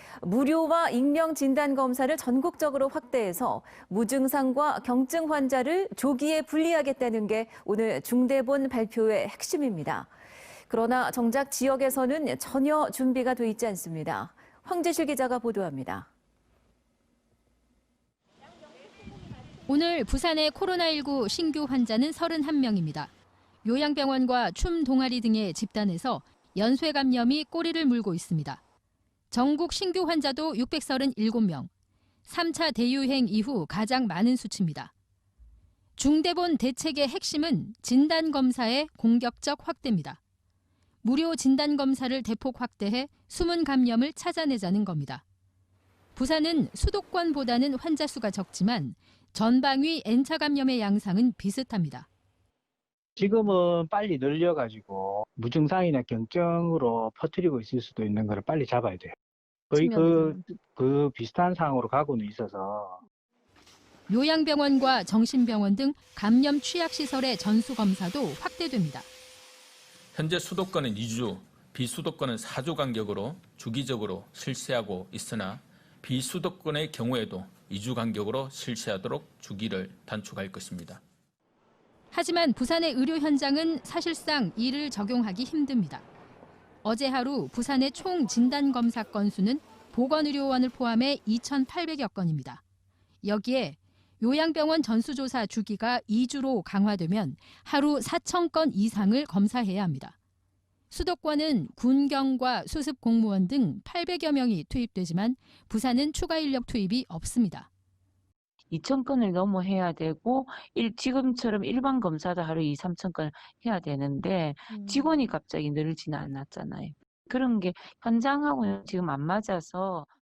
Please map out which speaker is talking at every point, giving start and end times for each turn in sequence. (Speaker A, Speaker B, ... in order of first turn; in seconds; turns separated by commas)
Speaker A: 0.2-10.1, Speaker A: 10.7-16.1, Speaker B: 19.7-23.1, Speaker B: 23.6-28.6, Speaker B: 29.3-31.7, Speaker B: 32.2-34.9, Speaker B: 36.0-40.2, Speaker B: 41.0-45.2, Speaker B: 46.1-52.1, Speaker C: 53.2-59.1, Speaker C: 59.7-63.0, Speaker D: 59.8-60.5, Speaker B: 64.1-69.1, Speaker E: 70.1-81.0, Speaker B: 82.1-86.0, Speaker B: 86.8-92.6, Speaker B: 93.2-100.2, Speaker B: 100.9-107.7, Speaker D: 108.7-120.1